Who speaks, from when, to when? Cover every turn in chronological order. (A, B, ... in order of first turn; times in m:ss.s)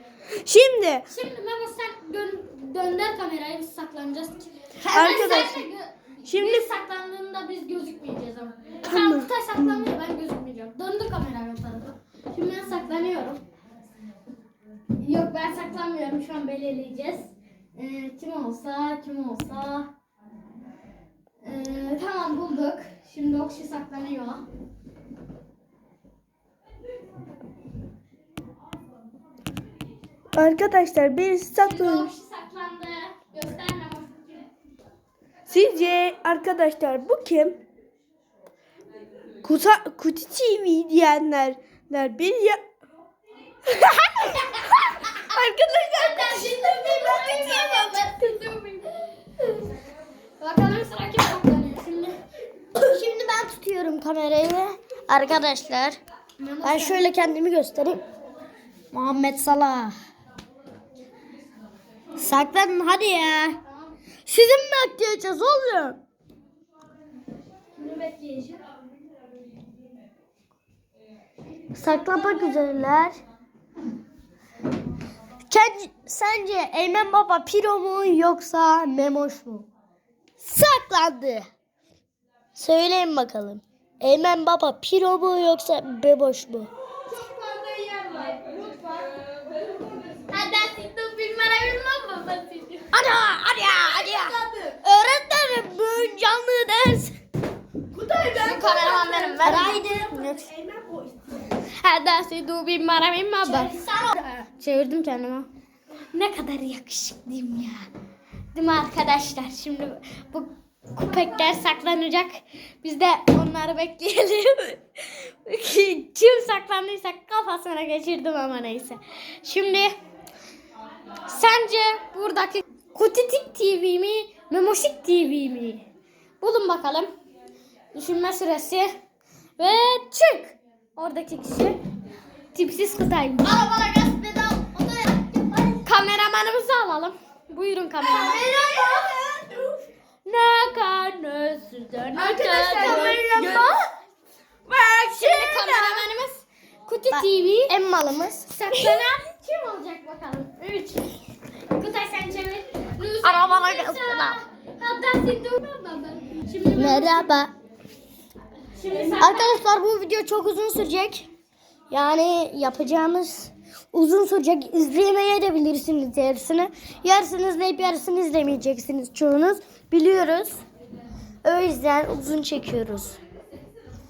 0:00.4-0:01.1 A
0:01.1-0:13.4 B
0:04.8-0:05.3 C
0:04.9-0:05.6 A
0:06.2-0:06.7 A
0:08.8-0:09.9 A
0:15.0-0:19.9 B
0:21.4-0:24.4 B
0:30.3-0:32.1 A
0:31.6-0:34.5 B
0:35.5-0:37.6 A
0:39.4-0:42.6 A
0:43.7-0:48.1 A
0:45.9-0:49.6 B
0:50.4-0:52.2 B
0:52.7-0:56.0 C
0:56.4-0:57.1 B
0:56.6-0:58.0 C
0:58.9-0:59.9 C
1:02.2-1:03.6 C
1:03.6-1:03.9 B
1:04.2-1:06.0 C
1:07.8-1:08.6 B
1:11.7-1:13.2 C
1:12.0-1:12.5 B
1:15.5-1:19.7 C
1:20.4-1:21.5 C
1:22.5-1:26.7 C
1:27.2-1:29.0 A
1:30.3-1:32.9 B
1:32.9-1:37.1 C
1:33.8-1:34.8 A
1:37.9-1:41.2 A
1:38.3-1:39.8 B
1:39.4-1:40.5 C
1:41.8-1:45.5 B
1:43.4-1:44.3 C
1:46.1-1:47.9 B
1:48.5-1:59.9 B
2:01.2-2:05.8 B
2:06.4-2:07.1 B
2:07.9-2:08.9 B
2:09.6-2:11.8 B
2:12.5-2:13.6 B
2:13.4-2:15.9 C
2:15.8-2:18.5 B
2:18.0-2:19.9 A
2:18.0-2:19.2 C
2:20.2-2:23.8 B
2:22.1-2:23.8 A
2:22.4-2:23.7 C
2:24.7-2:26.1 A
2:25.2-2:27.7 B
2:27.1-2:28.5 C
2:28.5-2:31.2 B
2:28.7-2:29.1 A
2:31.7-2:37.3 B
2:33.2-2:34.4 C
2:36.7-2:37.5 C
2:38.8-2:39.6 B
2:39.2-2:41.3 C
2:41.9-2:50.6 C
2:51.4-2:53.2 C